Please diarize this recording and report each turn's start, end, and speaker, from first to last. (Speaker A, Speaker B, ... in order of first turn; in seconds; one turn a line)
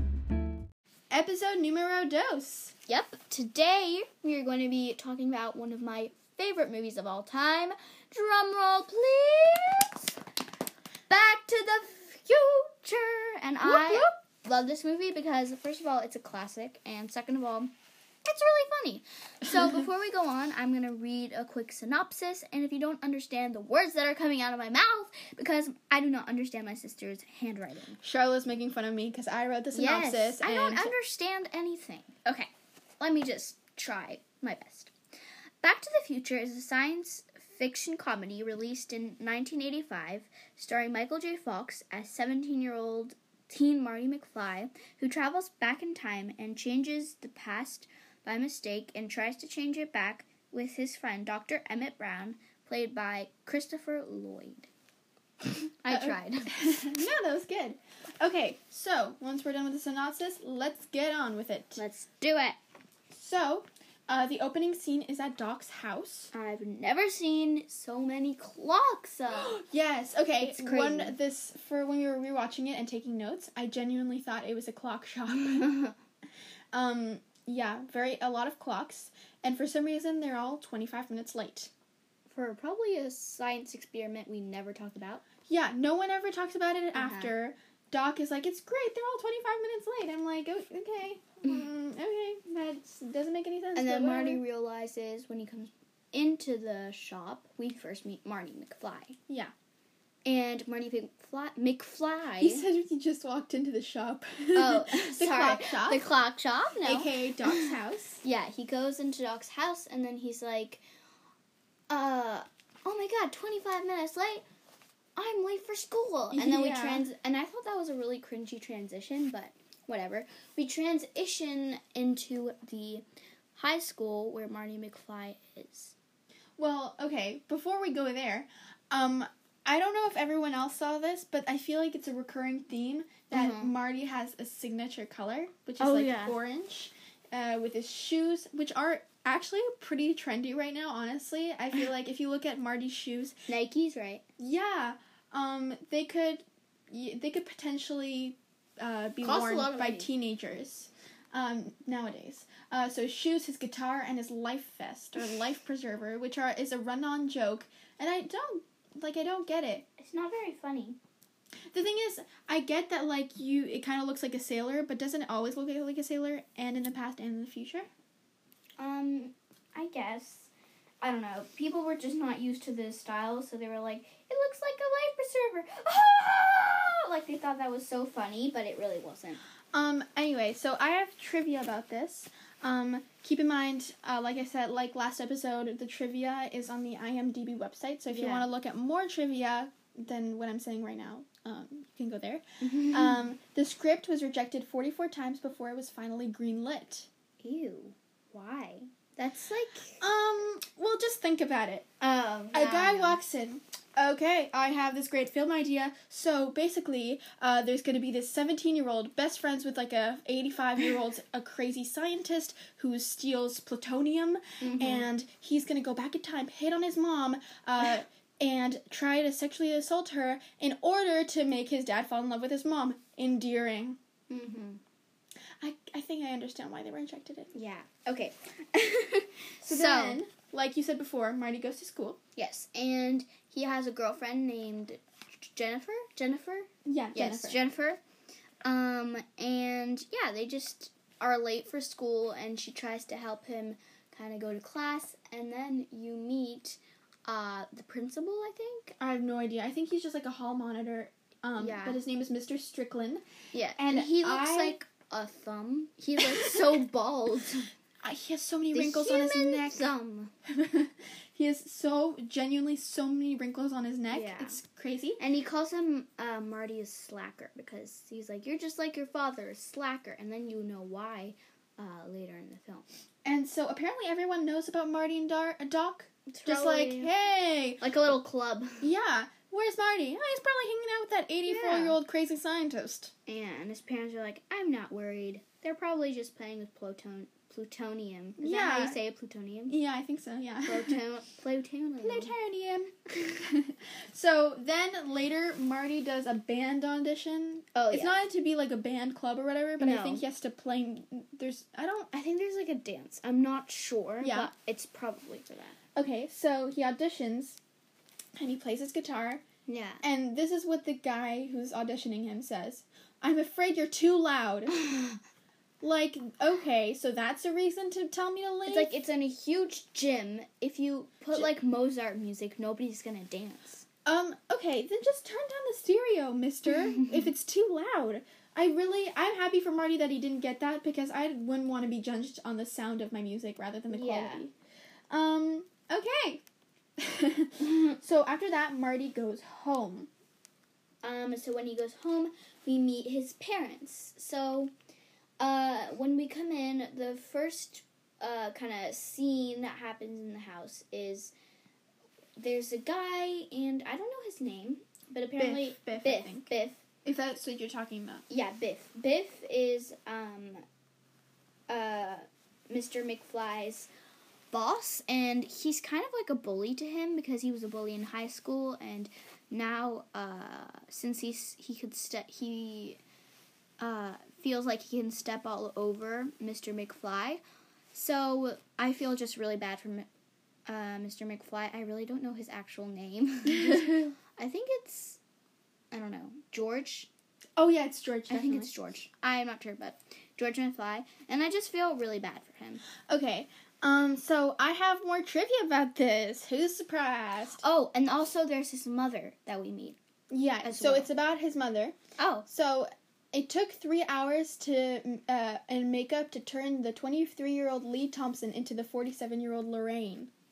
Speaker A: 1.1-2.7
Speaker B: 2.9-10.1
Speaker B: 11.1-17.7
Speaker A: 13.6-14.1
Speaker B: 18.2-28.0
Speaker A: 28.0-30.9
Speaker B: 29.7-34.9
Speaker B: 35.6-54.7
Speaker B: 55.5-57.0
Speaker A: 55.9-61.8
Speaker B: 61.8-62.6
Speaker A: 63.1-66.3
Speaker B: 66.3-69.6
Speaker A: 69.3-75.7
Speaker B: 70.4-71.2
Speaker B: 75.3-76.0
Speaker A: 76.7-81.7
Speaker B: 82.3-85.2
Speaker A: 85.5-94.4
Speaker B: 86.9-87.3
Speaker B: 93.7-99.2
Speaker B: 100.2-102.6
Speaker A: 102.4-106.0
Speaker B: 104.5-110.8
Speaker A: 106.8-108.2
Speaker B: 111.9-114.4
Speaker B: 115.2-123.0
Speaker A: 116.3-117.0
Speaker B: 123.5-125.9
Speaker A: 126.6-143.3
Speaker B: 133.3-133.7
Speaker B: 135.8-136.3
Speaker B: 143.5-144.2
Speaker A: 144.4-159.8
Speaker B: 149.2-150.1
Speaker B: 160.0-161.0
Speaker A: 161.7-167.9
Speaker B: 168.8-170.5
Speaker B: 171.0-179.4
Speaker A: 179.7-197.1
Speaker B: 188.1-188.5
Speaker B: 192.6-193.2
Speaker B: 197.4-200.0
Speaker A: 200.0-201.8
Speaker B: 202.0-203.2
Speaker A: 202.5-224.0
Speaker B: 214.6-215.1
Speaker B: 224.3-224.8
Speaker A: 225.6-227.5
Speaker B: 227.5-230.2
Speaker A: 229.6-232.2
Speaker B: 232.3-235.0
Speaker B: 235.5-238.0
Speaker A: 236.8-237.6
Speaker B: 238.6-248.9
Speaker A: 249.0-253.2
Speaker B: 251.6-252.0
Speaker B: 253.5-257.7
Speaker A: 253.8-254.8
Speaker A: 256.2-256.8
Speaker A: 258.0-259.9
Speaker B: 258.7-260.3
Speaker A: 260.4-265.2
Speaker B: 264.1-264.6
Speaker B: 265.2-272.9
Speaker A: 273.2-277.8
Speaker B: 276.3-277.1
Speaker B: 277.8-278.9
Speaker A: 278.8-283.1
Speaker B: 281.5-282.0
Speaker B: 283.2-289.7
Speaker A: 288.4-289.0
Speaker A: 289.7-291.0
Speaker B: 290.7-292.3
Speaker A: 292.0-302.1
Speaker B: 297.7-298.2
Speaker B: 299.8-300.2
Speaker B: 302.1-305.8
Speaker A: 304.2-304.5
Speaker A: 305.9-307.6
Speaker A: 308.4-309.4
Speaker B: 309.7-310.0
Speaker A: 310.0-314.8
Speaker B: 314.7-315.2
Speaker A: 315.8-318.9
Speaker B: 318.7-323.8
Speaker A: 324.1-334.5
Speaker B: 326.7-327.3
Speaker B: 333.9-334.4
Speaker A: 335.1-336.4
Speaker A: 337.0-340.1
Speaker B: 337.6-338.0
Speaker B: 341.0-344.7
Speaker B: 345.4-351.3
Speaker B: 352.4-356.8
Speaker A: 355.4-356.5
Speaker A: 357.0-358.2
Speaker B: 358.3-360.6
Speaker B: 361.7-363.9
Speaker B: 364.5-373.0
Speaker B: 373.8-377.4
Speaker B: 377.9-380.1
Speaker B: 380.7-385.2
Speaker A: 383.5-384.0
Speaker B: 385.9-387.1
Speaker A: 387.6-388.7
Speaker B: 388.3-392.8
Speaker A: 393.1-397.6
Speaker B: 397.6-400.0
Speaker A: 400.3-401.9
Speaker B: 400.6-401.1
Speaker B: 402.2-402.5
Speaker A: 402.5-410.3